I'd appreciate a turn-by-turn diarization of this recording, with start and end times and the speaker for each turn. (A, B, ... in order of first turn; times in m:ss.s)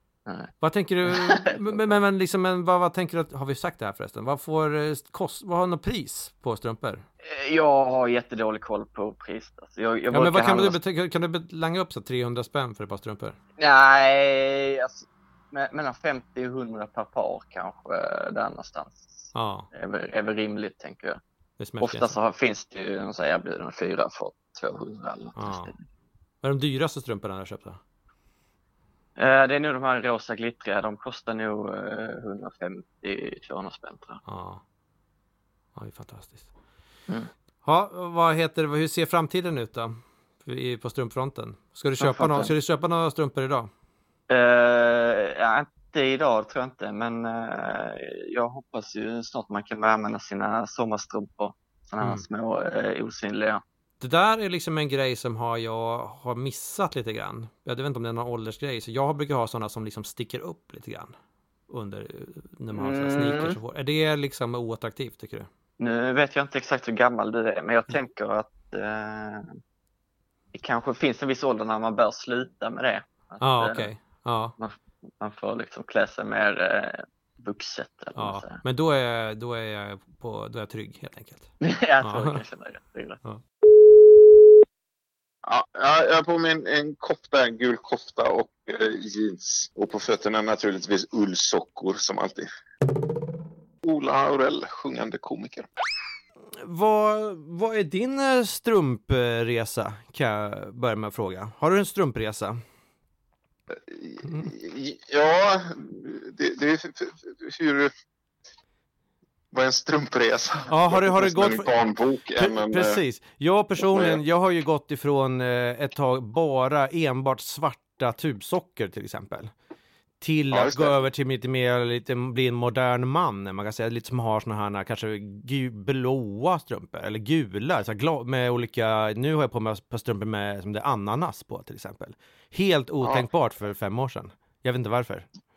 0:00.3-0:00.5 A
0:00.6-0:07.0 B
0:01.0-0:01.9 A
0:07.2-0:10.8 A
0:10.1-0:13.4 B
0:13.6-0:21.2 A
0:19.3-0:19.7 B
0:21.6-0:22.2 B
0:21.8-0:25.8 A
0:25.4-0:25.7 B
0:26.4-0:27.8 B
0:29.2-0:34.2 A
0:34.3-0:34.6 B
0:35.8-0:36.5 B
0:37.6-0:43.7 B
0:42.0-0:42.5 A
0:44.3-0:53.6 A
0:54.0-1:01.1 B
1:01.7-1:05.5 B
1:02.7-1:03.6 A
1:05.8-1:09.6 A
1:10.5-1:13.9 A
1:13.4-1:14.5 B
1:14.6-1:18.6 A
1:18.2-1:22.4 B
1:21.6-1:23.2 A
1:25.4-1:32.5 C
1:33.8-1:35.7 C
1:36.6-1:42.6 B
1:43.7-1:47.9 C
1:44.2-1:44.5 B
1:49.5-1:53.0 C
1:50.7-1:51.7 B
1:52.4-1:59.5 B
1:53.9-1:54.2 C
2:00.2-2:15.3 B
2:00.5-2:01.0 C